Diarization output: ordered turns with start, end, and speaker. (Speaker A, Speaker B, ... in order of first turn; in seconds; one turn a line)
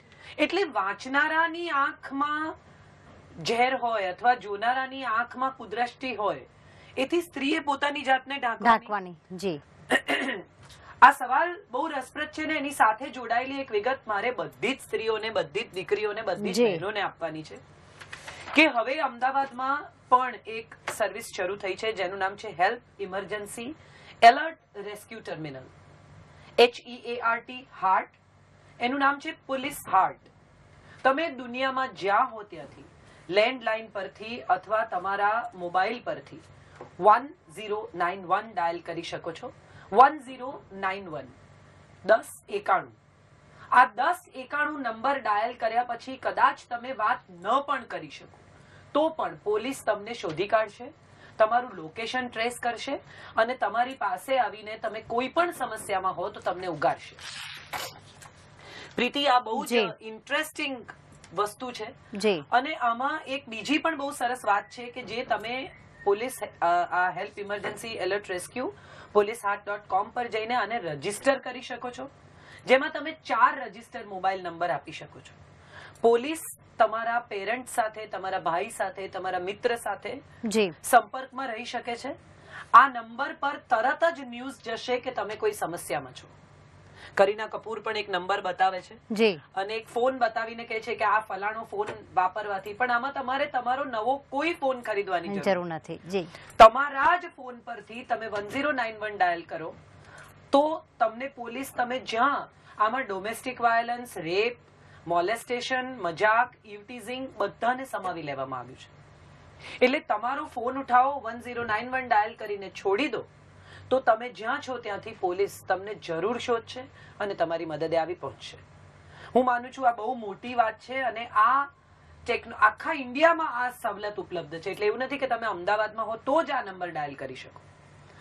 Speaker A: 0.4-2.5
Speaker A: 3.4-8.9
Speaker B: 8.6-9.6
Speaker A: 9.9-10.4
Speaker A: 11.0-17.6
Speaker B: 16.4-16.8
Speaker A: 18.5-25.7
Speaker A: 26.6-28.2
Speaker A: 28.8-30.3
Speaker A: 31.0-36.4
Speaker A: 37.0-41.3
Speaker A: 42.0-42.9
Speaker A: 43.7-48.4
Speaker A: 48.9-57.2
Speaker A: 59.0-61.9
Speaker B: 59.6-59.9
Speaker B: 62.1-62.4
Speaker A: 62.5-72.1
Speaker A: 72.7-75.3
Speaker A: 76.0-80.2
Speaker B: 80.4-80.8
Speaker A: 80.8-82.2
Speaker A: 82.7-86.3
Speaker A: 87.2-89.0
Speaker B: 89.1-89.4
Speaker A: 89.5-95.6
Speaker B: 95.2-96.3
Speaker A: 96.6-99.7
Speaker A: 100.5-108.9
Speaker A: 109.8-113.3
Speaker A: 113.9-118.6
Speaker A: 119.3-121.7
Speaker A: 122.2-127.6